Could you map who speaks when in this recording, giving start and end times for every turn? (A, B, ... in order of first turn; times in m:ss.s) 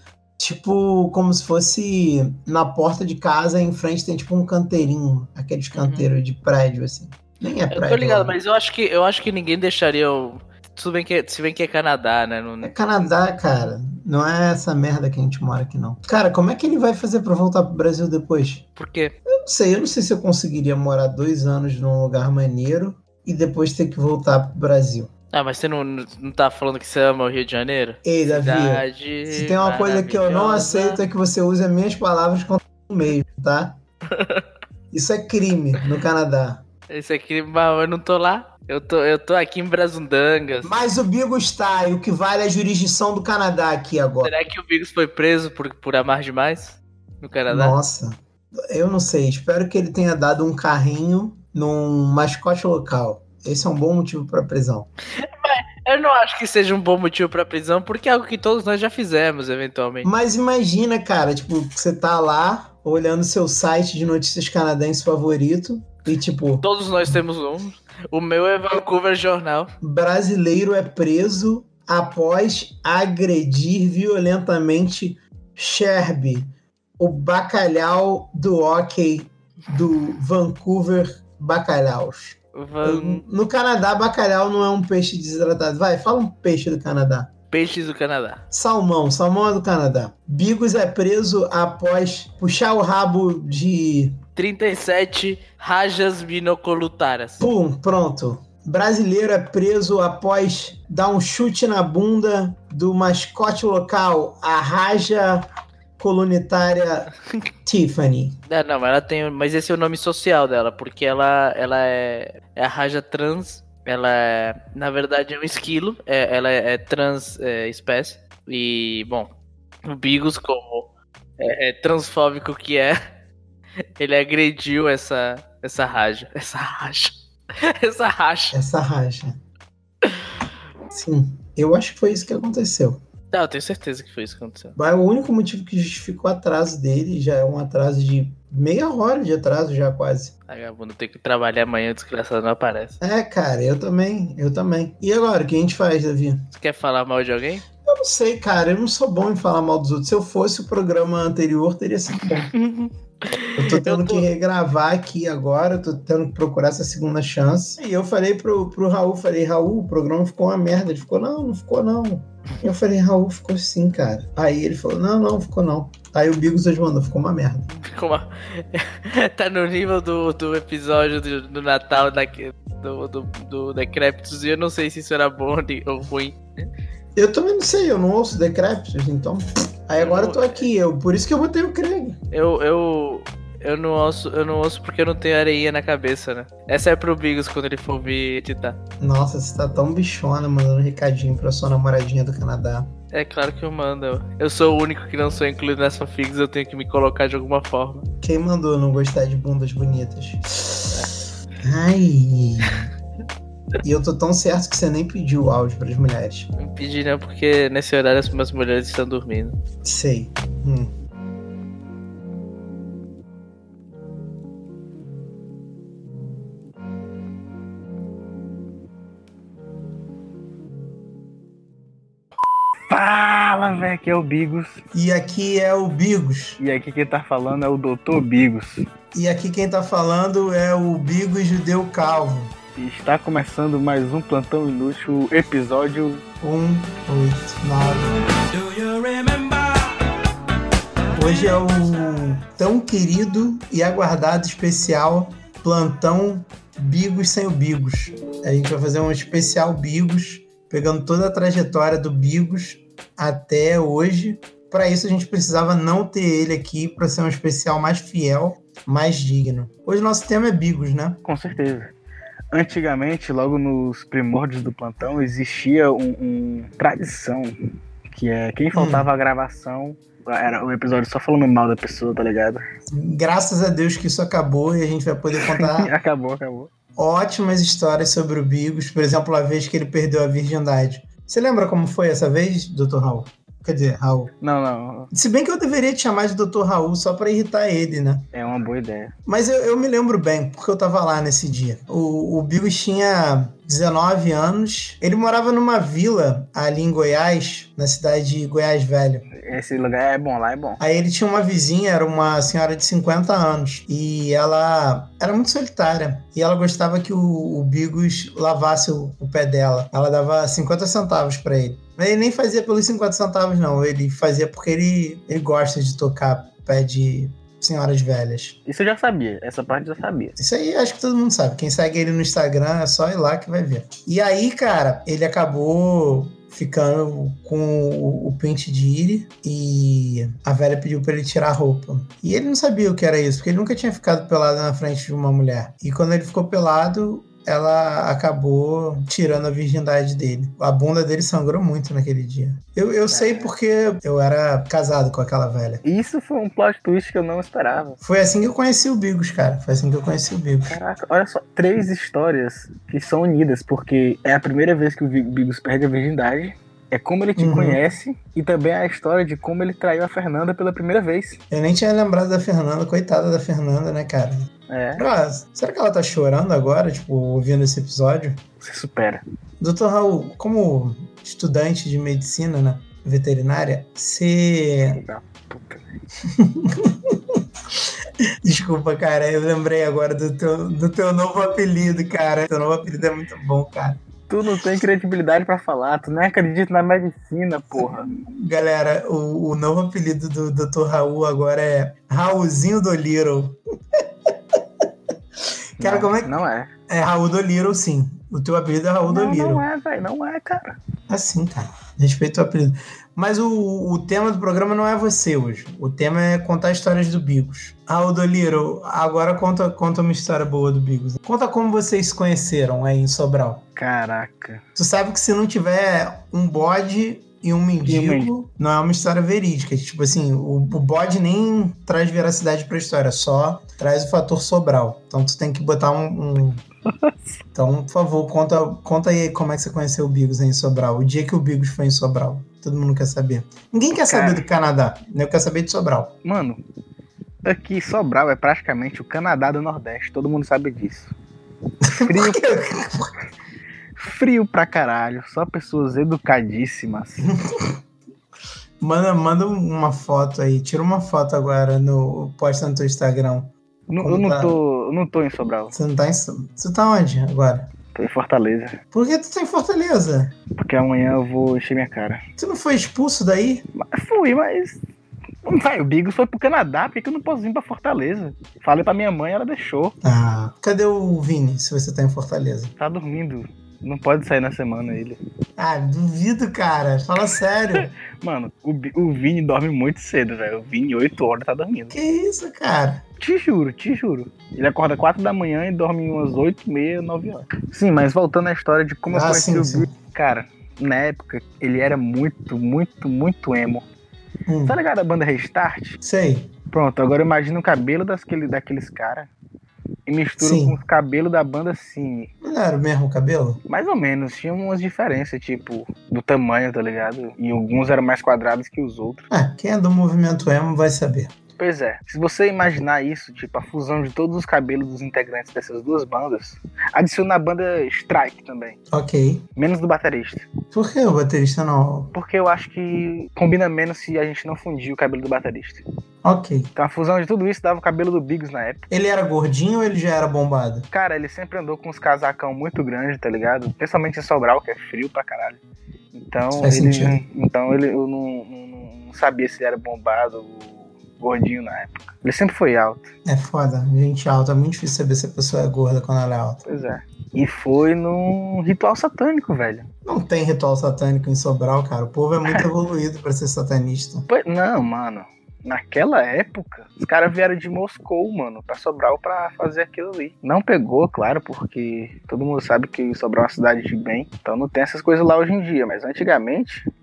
0:00.4-0:08.4 A
0:05.8-0:06.1 B
0:07.7-0:12.7 B
0:12.6-0:18.6 A
0:18.8-0:19.2 B
0:19.3-0:25.1 A
0:25.3-0:31.0 B
0:28.0-0:33.8 A
0:34.1-0:34.5 B
0:34.9-0:36.6 A
0:36.9-0:40.7 B
0:40.6-0:44.3 A
0:44.2-0:47.8 B
0:47.5-0:54.9 A
0:55.2-1:00.1 B
1:00.0-1:06.6 A
1:06.6-1:09.7 B
1:09.8-1:27.3 A
1:22.6-1:23.2 B
1:27.5-1:28.4 B
1:28.5-1:34.2 A
1:34.4-1:37.4 B
1:37.4-1:45.5 A
1:46.0-1:47.1 A
1:47.6-1:48.4 A
1:48.5-1:59.3 B
1:59.8-2:03.0 B
2:04.0-2:08.5 B
2:08.5-2:09.3 A
2:10.0-2:10.3 B
2:10.9-2:13.0 A
2:13.3-2:14.8 B
2:14.8-2:20.3 A
2:20.5-2:23.0 B
2:23.0-2:26.4 A
2:26.5-2:27.6 B
2:27.8-2:32.5 A
2:32.4-2:34.2 B
2:33.6-2:47.7 A
2:47.7-2:56.6 B
2:57.2-3:02.2 A
3:00.0-3:00.7 B
3:02.3-3:08.8 B
3:09.0-3:12.9 A
3:13.1-3:18.1 B
3:18.2-3:21.1 A
3:21.6-3:22.9 A
3:23.8-3:26.5 A
3:26.6-3:29.6 B
3:29.8-3:30.9 A
3:42.9-3:44.8 C
3:44.9-3:46.6 A
3:46.6-3:48.8 C
3:49.1-3:52.5 A
3:52.8-3:56.2 C
3:56.4-3:58.2 A
3:58.6-3:59.7 C
4:01.1-4:21.2 A
4:21.2-4:21.9 C
4:22.5-4:27.6 C
4:28.1-4:32.6 C
4:28.7-4:29.1 A
4:32.9-4:35.9 A
4:35.4-4:36.7 C
4:37.0-4:44.3 A
4:44.4-4:45.1 C
4:45.1-4:48.3 A
4:48.3-4:49.1 C
4:49.2-4:59.2 A
4:59.3-5:00.8 C
5:00.8-5:18.6 A
5:18.6-5:20.4 C
5:20.4-5:45.8 A
5:43.1-5:43.5 C
5:45.8-5:48.0 C
5:48.0-5:50.8 A
5:50.6-6:01.4 C
5:57.4-5:57.8 A
6:01.5-6:08.4 A
6:04.7-6:05.0 C
6:08.6-6:09.2 C
6:09.6-6:15.0 A
6:14.8-6:15.9 C
6:16.3-6:17.9 A
6:18.4-6:24.0 A
6:24.3-6:28.1 C
6:27.8-6:34.6 A
6:35.8-6:36.3 A
6:35.8-6:36.7 C
6:36.9-6:39.6 A
6:39.0-6:40.8 C
6:41.1-6:53.6 A
6:53.8-6:54.6 C
6:54.8-7:06.6 A
6:57.8-6:58.3 C
7:06.8-7:07.4 C
7:07.5-7:16.1 A
7:14.1-7:14.4 C
7:16.2-7:16.6 C
7:17.4-7:21.1 C
7:21.8-7:23.1 A
7:21.9-7:22.5 C
7:24.0-7:27.3 C
7:27.3-7:27.8 A
7:28.8-7:34.6 A
7:33.9-7:35.7 C
7:35.7-7:37.7 A
7:37.9-7:38.8 C
7:38.9-7:40.3 A
7:40.5-7:42.2 C
7:42.4-7:43.6 A
7:43.7-7:44.8 C
7:45.4-7:50.0 C
7:50.0-7:52.7 A
7:52.8-7:55.2 C
7:55.6-7:57.9 A
7:57.7-8:02.0 C
8:01.9-8:03.0 A
8:03.2-8:13.8 C
8:09.1-8:09.9 A
8:14.5-8:14.8 A
8:14.6-8:16.0 C
8:16.0-8:16.5 A
8:16.7-8:19.3 C
8:20.1-8:22.3 C
8:20.4-8:20.8 A
8:22.4-8:23.6 A
8:23.7-8:29.3 C
8:29.3-8:31.3 A
8:31.6-8:38.8 C
8:38.9-8:39.4 A
8:39.6-8:40.4 C
8:40.7-8:42.1 A
8:42.1-8:45.8 C
8:46.2-8:46.7 A
8:46.8-8:48.8 C
8:48.9-8:50.9 A
8:50.9-9:03.1 C
8:56.5-8:57.2 A
9:03.2-9:06.6 A
9:06.6-9:09.9 C
9:10.0-9:14.3 A
9:14.3-9:26.9 C